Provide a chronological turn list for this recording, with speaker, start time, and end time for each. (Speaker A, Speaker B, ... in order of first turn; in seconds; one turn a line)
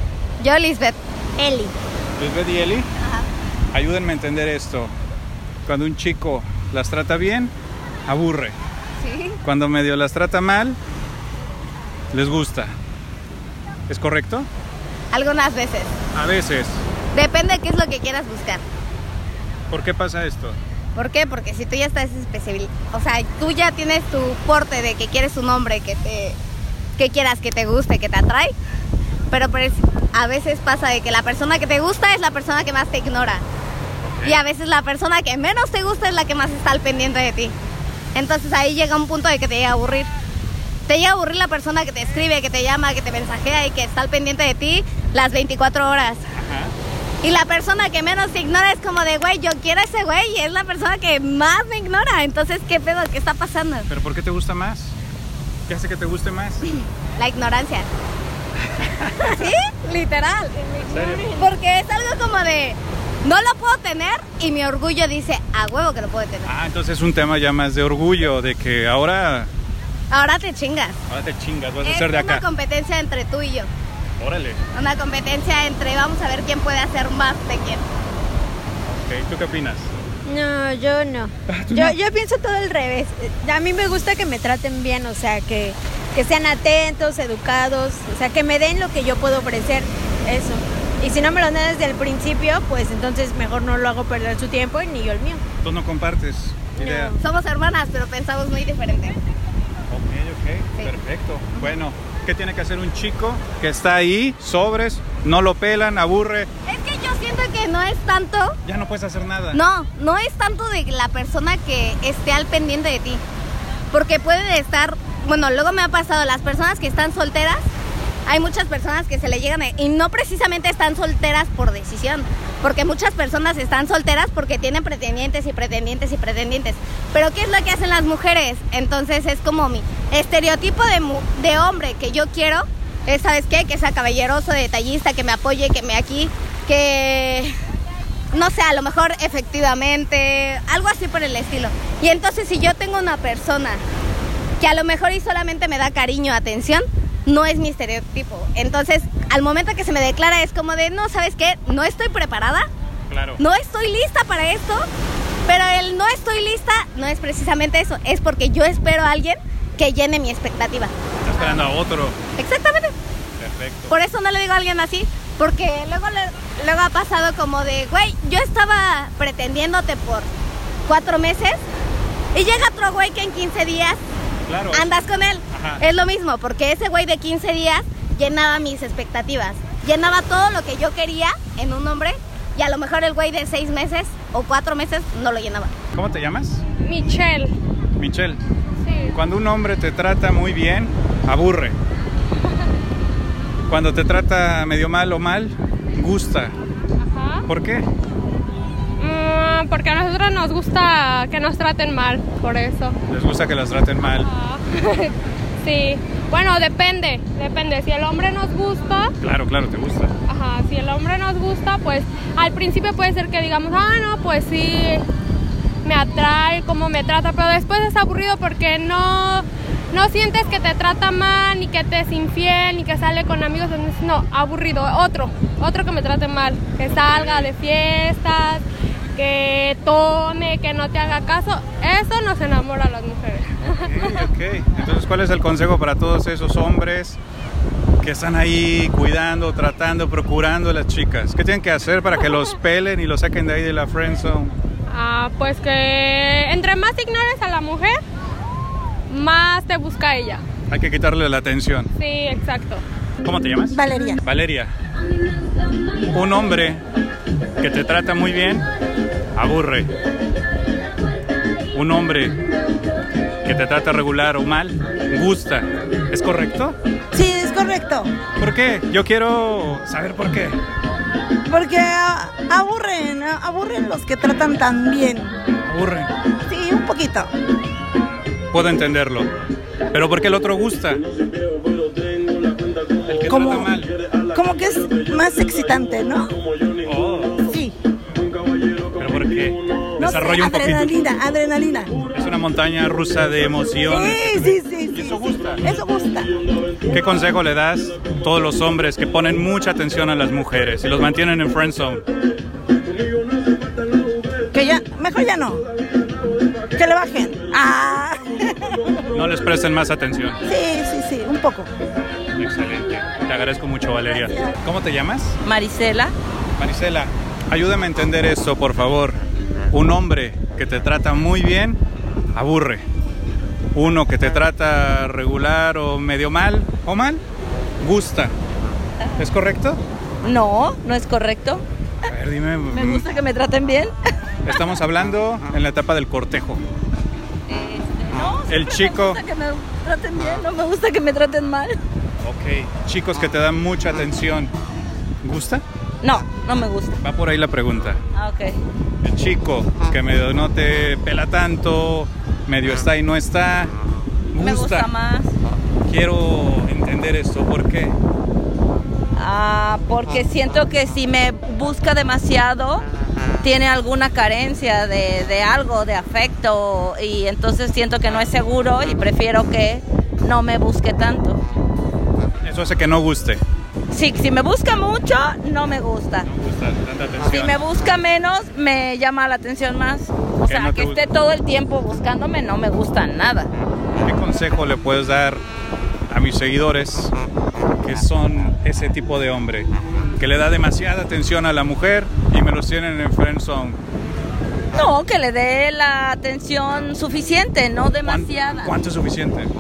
Speaker A: 0.4-1.0
Speaker B: 2.2-2.9
Speaker B: 3.7-4.9
Speaker B: 5.7-7.5
Speaker B: 8.1-8.6
Speaker A: 9.0-9.4
Speaker B: 9.4-10.8
Speaker B: 12.1-12.7
Speaker B: 13.9-14.5
Speaker A: 15.1-15.9
Speaker B: 16.1-16.9
Speaker A: 17.1-18.6
Speaker B: 19.7-20.6
Speaker A: 21.0-26.4
Speaker A: 27.0-28.5
Speaker A: 29.3-33.4
Speaker B: 34.0-34.4
Speaker A: 34.2-37.6
Speaker A: 38.1-40.1
Speaker A: 40.9-46.2
Speaker B: 46.4-46.8
Speaker A: 47.2-53.9
Speaker B: 53.9-55.0
Speaker B: 55.7-56.8
Speaker A: 57.2-57.9
Speaker B: 58.8-59.4
Speaker A: 59.2-66.5
Speaker B: 60.8-61.3
Speaker B: 66.5-69.5
Speaker A: 70.1-71.0
Speaker B: 71.1-72.4
Speaker A: 71.8-73.7
Speaker B: 74.2-74.6
Speaker A: 74.7-77.8
Speaker B: 78.8-79.9
Speaker C: 80.3-95.4
Speaker B: 81.5-82.0
Speaker B: 95.6-97.2
Speaker A: 96.8-99.2
Speaker B: 99.9-106.5
Speaker A: 106.7-108.6
Speaker B: 108.7-109.6
Speaker A: 109.5-113.2
Speaker A: 113.9-117.6
Speaker A: 118.3-137.5
Speaker A: 138.3-143.8
Speaker A: 144.6-152.7
Speaker B: 153.1-153.4
Speaker A: 153.4-154.9
Speaker A: 155.5-161.6
Speaker B: 161.2-162.2
Speaker A: 162.4-163.0
Speaker B: 163.4-164.0
Speaker A: 163.9-170.3
Speaker A: 170.9-171.7
Speaker A: 172.3-174.0
Speaker B: 174.5-175.0
Speaker A: 174.7-185.7
Speaker B: 175.5-175.8
Speaker B: 185.9-186.6
Speaker D: 186.8-187.5
Speaker B: 188.0-188.4
Speaker D: 188.8-189.1
Speaker B: 189.1-191.8
Speaker B: 193.7-196.6
Speaker D: 197.0-197.4
Speaker B: 197.5-197.9
Speaker D: 199.0-203.0
Speaker B: 203.1-204.3
Speaker D: 204.2-209.1
Speaker B: 209.2-210.1
Speaker D: 210.3-215.0
Speaker D: 215.8-228.6
Speaker B: 226.8-227.5
Speaker D: 229.2-234.2
Speaker B: 233.8-237.2
Speaker B: 238.0-244.5
Speaker D: 244.9-248.0
Speaker D: 249.1-250.4
Speaker B: 250.7-251.9
Speaker D: 252.0-252.8
Speaker B: 253.2-254.7
Speaker E: 253.7-254.2
Speaker B: 256.1-256.8
Speaker B: 257.6-258.7
Speaker B: 259.4-259.9
Speaker B: 261.7-262.4
Speaker B: 263.4-266.8
Speaker E: 267.1-268.1
Speaker B: 268.4-270.6
Speaker E: 271.4-275.3
Speaker B: 275.7-276.1
Speaker E: 276.5-277.3
Speaker B: 278.5-279.3
Speaker B: 279.9-281.0
Speaker B: 283.1-283.9
Speaker E: 283.3-283.7
Speaker E: 284.3-286.3
Speaker B: 286.8-287.4
Speaker E: 287.5-287.8
Speaker B: 289.0-290.9
Speaker E: 290.0-291.9
Speaker B: 292.1-295.6
Speaker E: 293.9-296.3
Speaker B: 296.9-302.0
Speaker E: 304.5-305.6
Speaker E: 306.8-308.3
Speaker B: 309.1-310.4
Speaker E: 310.5-311.7
Speaker B: 312.4-315.4
Speaker F: 315.4-316.1
Speaker B: 316.6-319.2
Speaker B: 319.7-321.8
Speaker B: 322.4-322.8
Speaker B: 323.7-327.2
Speaker B: 327.8-328.4
Speaker B: 329.2-329.8
Speaker F: 330.2-331.6
Speaker B: 332.1-333.1
Speaker F: 332.7-333.9
Speaker B: 334.4-336.6
Speaker F: 337.5-341.8
Speaker B: 338.1-339.2
Speaker B: 342.2-344.5
Speaker B: 345.2-345.6
Speaker F: 346.0-346.9
Speaker B: 347.0-348.0
Speaker F: 348.1-348.6
Speaker B: 349.0-353.7
Speaker B: 354.3-354.9
Speaker F: 354.4-355.3
Speaker B: 355.9-358.0
Speaker F: 359.1-362.9
Speaker F: 363.4-371.4
Speaker B: 368.0-368.3
Speaker B: 372.4-373.4
Speaker F: 373.9-376.3
Speaker B: 376.2-377.7
Speaker F: 377.3-383.5
Speaker B: 380.5-381.0
Speaker B: 384.0-385.4
Speaker B: 386.1-387.1
Speaker B: 387.8-393.8
Speaker F: 394.7-398.7
Speaker B: 398.0-399.5